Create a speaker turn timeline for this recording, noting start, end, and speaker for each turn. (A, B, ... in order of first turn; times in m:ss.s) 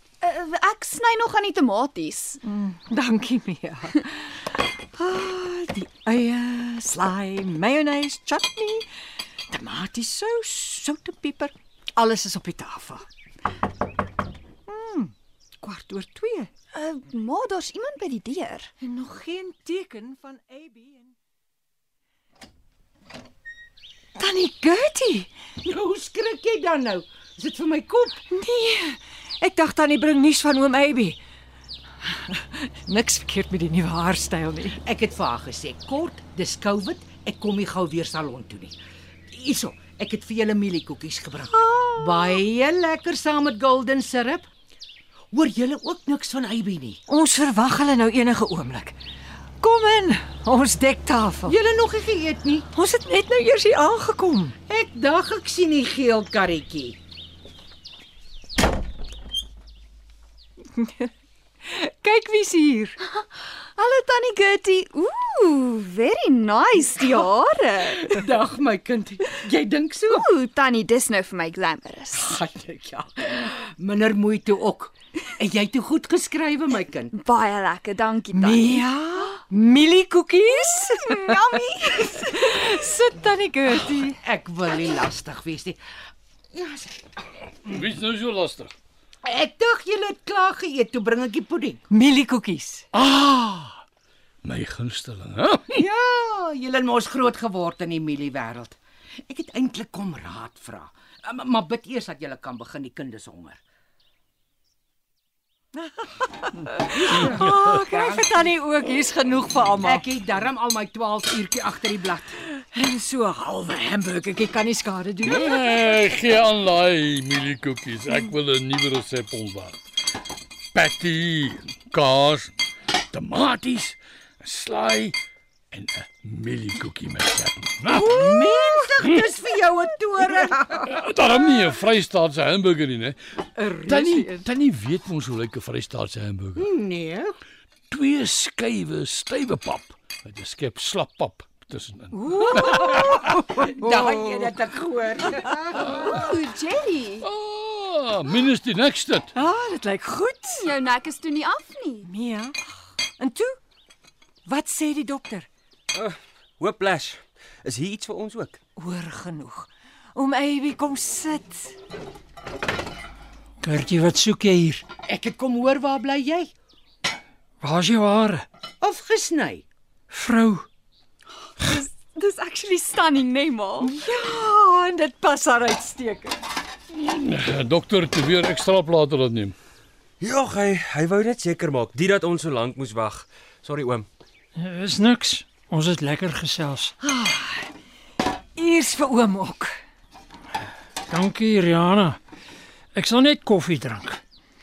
0:00.2-0:02.4 A
0:02.4-0:08.8 B
0:09.5-0:13.0 B
0:14.7-0:16.5 B
0:16.7-0:18.7 A
0:18.8-0:21.1 B
0:24.2-0:25.3 B
0:25.6-0:28.2 C
0:28.3-0:31.2 B
0:32.3-0:34.8 B
0:34.8-0:38.8 C
0:39.3-0:44.5 C
0:41.6-0:42.2 B
0:45.3-0:47.0 C
0:47.1-0:49.0 B
0:49.6-0:51.5 B
0:51.4-0:52.7 C
0:52.7-0:54.5 B
0:54.7-0:57.0 C
1:00.8-1:01.0 B
1:01.6-1:03.0 B
1:03.0-1:08.0 A
1:07.9-1:10.3 C
1:10.1-1:12.3 A
1:12.1-1:17.1 C
1:17.1-1:18.8 A
1:18.3-1:21.4 B
1:20.8-1:22.5 A
1:22.0-1:24.2 B
1:24.1-1:25.8 C
1:26.5-1:27.0 C
1:27.6-1:28.7 D
1:29.2-1:31.8 C
1:31.9-1:32.8 B
1:34.4-1:35.6 D
1:35.7-1:43.6 C
1:45.9-1:50.0 B
1:46.9-1:48.5 C
1:49.8-1:52.3 C
1:52.6-1:55.8 B
1:55.2-1:59.8 D
2:00.7-2:02.6 D
2:03.1-2:05.2 D
2:05.7-2:08.5 D
2:07.9-2:11.0 C
2:10.9-2:13.2 D
2:13.6-2:14.5 B
2:13.8-2:16.6 D
2:16.6-2:17.3 C
2:17.9-2:23.5 D
2:22.1-2:24.1 B
2:23.6-2:26.2 C
2:25.9-2:27.2 A
2:27.2-2:29.3 D
2:29.3-2:30.6 B
2:30.6-2:32.1 A
2:32.0-2:32.5 B
2:33.2-2:33.6 B
2:34.4-2:35.5 B
2:35.9-2:38.6 E
2:38.8-2:41.7 B
2:43.6-2:44.8 F
2:45.1-2:46.5 C
2:47.6-2:48.4 F
2:48.8-2:49.6 C
2:50.1-2:50.7 F
2:51.6-2:54.0 A
2:53.8-2:56.4 B
2:56.9-2:59.5 D
3:00.2-3:04.1 E
3:04.6-3:06.9 F
3:07.0-3:07.7 B
3:08.6-3:09.7 B
3:11.1-3:12.2 F
3:12.9-3:14.2 F